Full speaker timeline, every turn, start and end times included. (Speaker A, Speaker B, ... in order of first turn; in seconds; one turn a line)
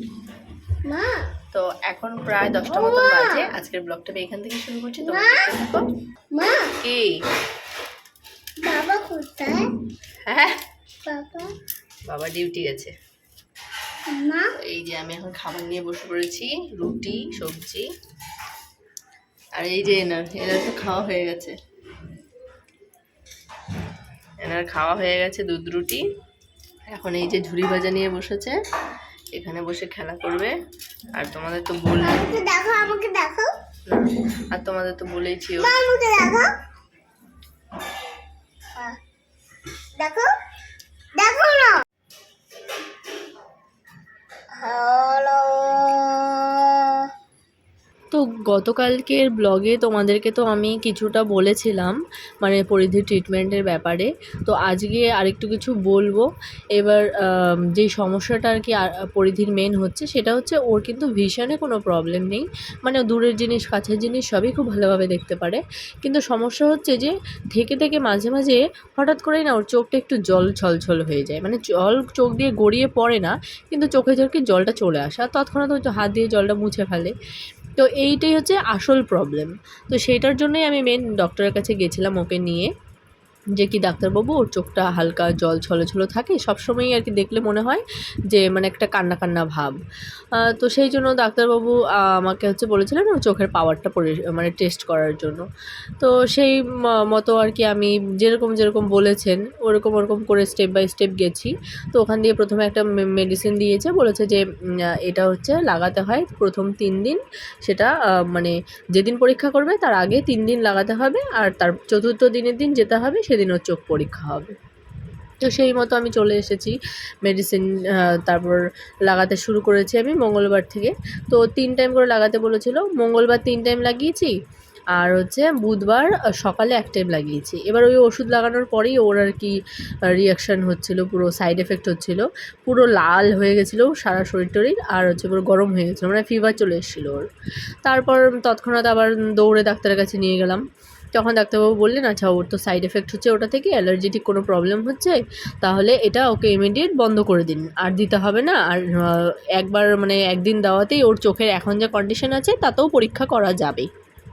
Speaker A: 0.8-1.3
Speaker B: 1.5-5.9
Speaker A: 2.7-3.5
Speaker A: 5.0-5.5
Speaker A: 6.3-6.8
Speaker B: 6.8-7.2
Speaker A: 8.6-9.7
Speaker B: 10.2-10.6
Speaker A: 11.1-11.6
Speaker B: 12.1-12.9
Speaker A: 14.1-14.5
Speaker B: 14.6-17.9
Speaker B: 19.6-21.6
Speaker B: 24.4-26.0
Speaker B: 26.9-28.6
Speaker B: 29.3-30.5
Speaker B: 31.1-32.3
Speaker A: 32.0-33.5
Speaker B: 33.9-35.8
Speaker A: 35.6-36.5
Speaker A: 40.0-40.3
Speaker A: 41.1-41.8
Speaker A: 44.6-47.1
Speaker B: 48.1-77.2
Speaker B: 77.8-82.7
Speaker B: 83.6-89.8
Speaker B: 90.4-95.5
Speaker B: 96.0-96.6
Speaker B: 97.1-104.4
Speaker B: 105.0-114.5
Speaker B: 115.4-124.3
Speaker B: 125.0-129.6
Speaker B: 130.1-137.2
Speaker B: 137.8-140.6
Speaker B: 141.2-153.9